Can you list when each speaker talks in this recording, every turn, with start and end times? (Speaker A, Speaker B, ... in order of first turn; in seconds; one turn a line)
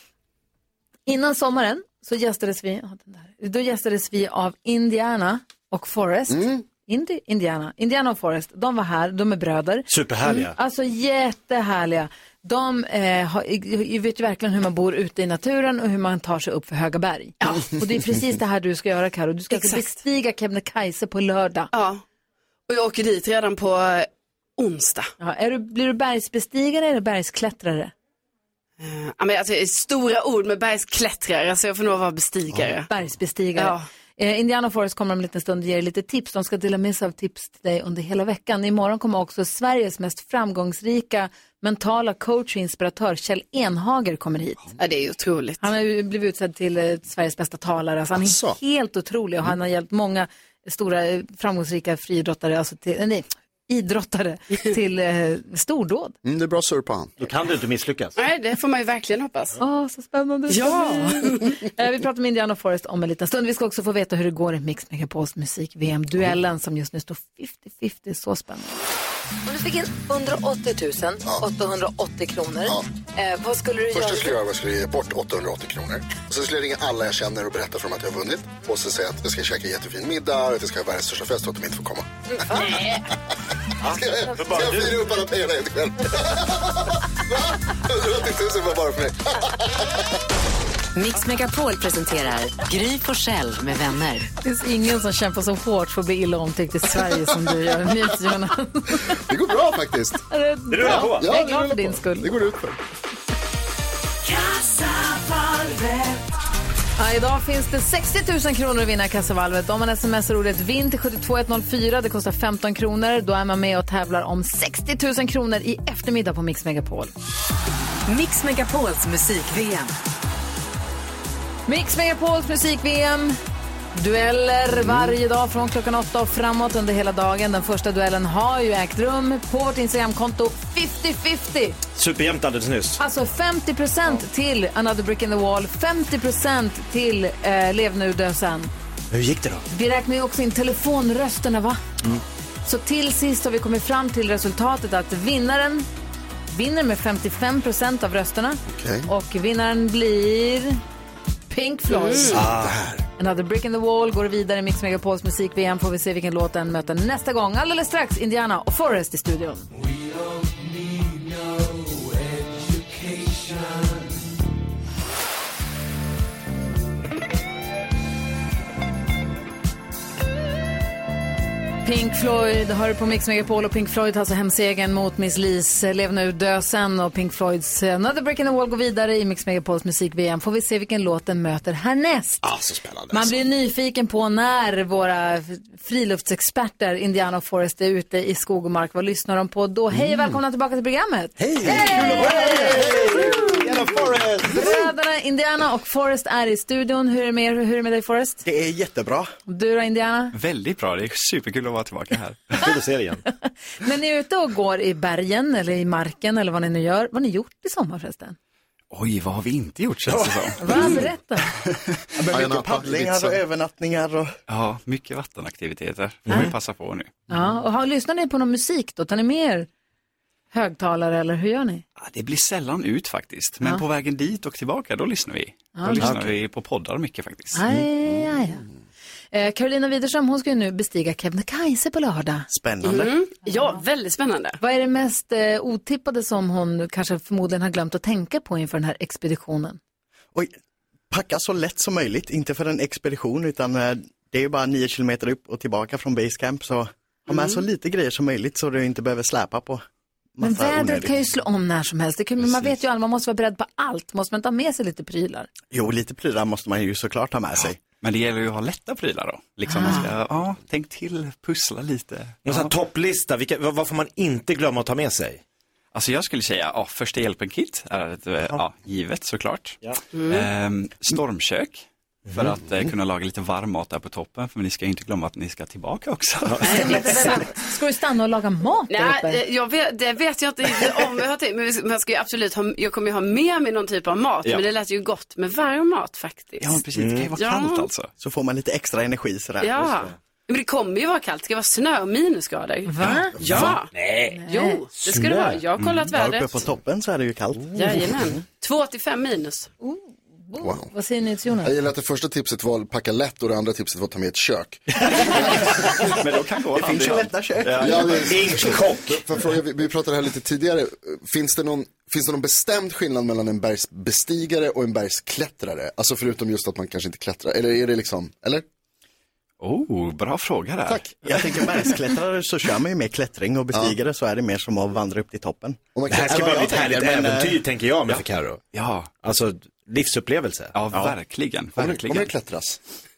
Speaker A: 1.1-21.7
Speaker B: 6.3-6.6
Speaker C: 9.9-10.5
Speaker D: 17.4-17.7
Speaker D: 19.5-19.9
Speaker D: 21.7-22.0
Speaker D: 22.7-25.1
Speaker A: 25.2-27.9
Speaker D: 28.8-32.9
Speaker A: 32.9-44.7
Speaker D: 33.5-33.9
Speaker D: 44.8-45.6
Speaker A: 45.6-56.1
Speaker B: 48.1-48.6
Speaker B: 56.2-57.1
Speaker C: 57.2-58.1
Speaker D: 58.1-59.6
Speaker A: 59.6-68.8
Speaker D: 60.5-61.5
Speaker A: 69.5-74.4
Speaker B: 73.9-82.6
Speaker C: 83.8-85.0
Speaker B: 83.8-86.7
Speaker B: 87.8-89.7
Speaker E: 90.9-94.3
Speaker A: 94.4-99.2
Speaker B: 99.1-100.2
Speaker A: 100.3-102.3
Speaker C: 100.7-101.2
Speaker B: 100.8-102.8
Speaker E: 104.3-106.1
Speaker A: 107.0-117.1
Speaker E: 118.0-119.9
Speaker A: 121.7-123.4
Speaker A: 123.9-131.8
Speaker C: 131.9-133.0
Speaker A: 133.0-138.7
Speaker C: 139.1-139.6
Speaker A: 139.7-141.8
Speaker A: 142.6-145.8
Speaker A: 146.5-150.8
Speaker B: 148.7-149.1
Speaker A: 151.5-152.4
Speaker D: 151.9-152.5
Speaker C: 152.3-152.8
Speaker B: 152.4-153.0
Speaker A: 153.2-159.7
Speaker A: 171.8-182.4
Speaker B: 182.7-183.1
Speaker A: 183.1-193.6
Speaker F: 191.4-191.8
Speaker B: 191.7-193.1
Speaker C: 191.7-194.5
Speaker A: 194.4-198.4
Speaker F: 198.4-199.3
Speaker A: 199.5-200.3
Speaker G: 200.3-202.6
Speaker C: 202.6-203.2
Speaker A: 203.4-208.3
Speaker G: 208.9-210.9
Speaker A: 210.6-211.5
Speaker F: 212.2-214.3
Speaker B: 212.3-213.4
Speaker G: 214.5-217.1
Speaker C: 216.3-216.5
Speaker A: 217.3-219.7
Speaker A: 220.5-221.8
Speaker G: 222.0-227.6
Speaker A: 225.8-226.1
Speaker C: 226.0-226.3
Speaker A: 227.5-228.6
Speaker A: 229.3-232.5
Speaker F: 232.5-233.2
Speaker D: 232.8-234.6
Speaker A: 233.4-233.7
Speaker A: 234.6-239.8
Speaker F: 241.1-249.8
Speaker D: 247.3-247.6
Speaker F: 250.4-251.2
Speaker A: 250.4-255.5
Speaker F: 255.7-257.8
Speaker G: 258.0-262.7
Speaker A: 259.7-260.0
Speaker D: 259.8-260.1
Speaker C: 262.4-265.4
Speaker G: 265.9-276.7
Speaker D: 270.1-270.5
Speaker C: 272.3-272.5
Speaker D: 276.6-277.4
Speaker A: 276.7-279.4
Speaker D: 278.9-287.9
Speaker G: 286.6-288.1
Speaker C: 286.9-287.3
Speaker F: 288.2-289.9
Speaker D: 289.6-296.6
Speaker A: 292.9-293.4
Speaker C: 293.4-294.4
Speaker A: 294.3-294.8
Speaker F: 295.0-298.3
Speaker C: 295.1-295.6
Speaker D: 297.7-299.7
Speaker A: 299.8-301.7
Speaker B: 300.6-300.9
Speaker B: 301.6-305.6
Speaker G: 306.0-307.3
Speaker F: 306.7-308.8
Speaker C: 307.6-309.2
Speaker B: 307.8-318.6
Speaker G: 319.6-321.1
Speaker F: 321.1-327.6
Speaker B: 325.9-327.1
Speaker C: 326.1-328.6
Speaker G: 328.7-329.1
Speaker C: 329.2-330.8
Speaker G: 330.7-332.3
Speaker B: 331.8-332.8